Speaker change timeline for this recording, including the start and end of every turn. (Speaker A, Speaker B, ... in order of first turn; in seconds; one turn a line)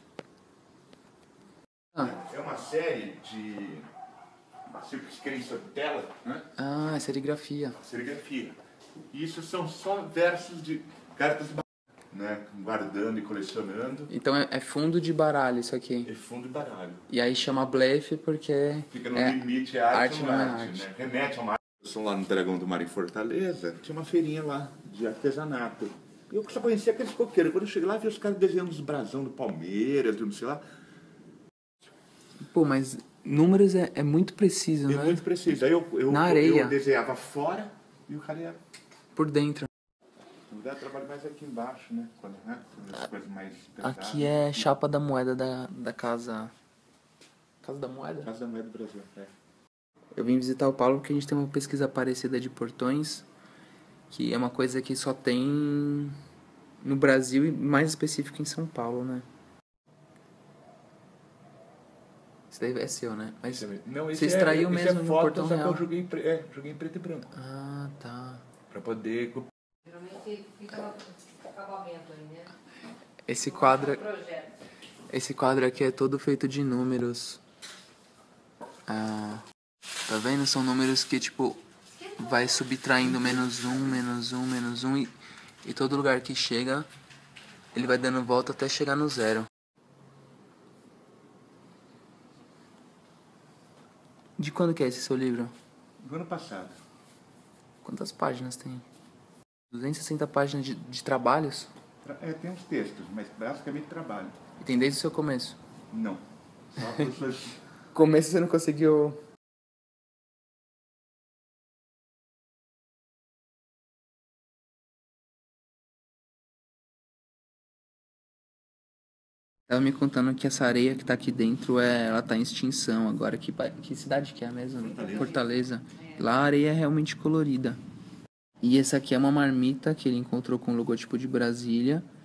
Speaker A: 2.0-3.9
Speaker A: 4.7-6.5
Speaker B: 6.6-7.8
Speaker A: 7.8-8.6
Speaker A: 9.1-14.1
Speaker B: 14.1-16.1
Speaker A: 16.1-17.1
Speaker B: 17.1-20.9
Speaker A: 18.9-30.6
Speaker B: 32.4-35.3
Speaker A: 34.9-38.6
Speaker B: 36.1-36.8
Speaker B: 39.1-39.7
Speaker A: 40.5-44.8
Speaker B: 43.8-46.5
Speaker B: 47.6-48.3
Speaker A: 48.2-49.3
Speaker B: 50.1-53.3
Speaker B: 54.1-56.2
Speaker B: 56.8-59.2
Speaker B: 62.5-65.8
Speaker A: 63.5-67.3
Speaker B: 67.3-68.5
Speaker A: 68.7-69.5
Speaker C: 69.9-72.5
Speaker B: 73.3-74.2
Speaker B: 75.1-77.4
Speaker B: 78.9-79.4
Speaker B: 80.1-86.9
Speaker B: 87.7-89.5
Speaker B: 94.4-95.5
Speaker A: 96.0-96.8
Speaker B: 97.8-98.8
Speaker B: 99.7-101.7
Speaker A: 102.0-104.4
Speaker B: 104.6-105.6
Speaker A: 105.9-106.2
Speaker A: 106.7-107.6
Speaker B: 107.9-109.2
Speaker B: 119.7-127.8
Speaker A: 124.8-125.4
Speaker B: 128.6-132.1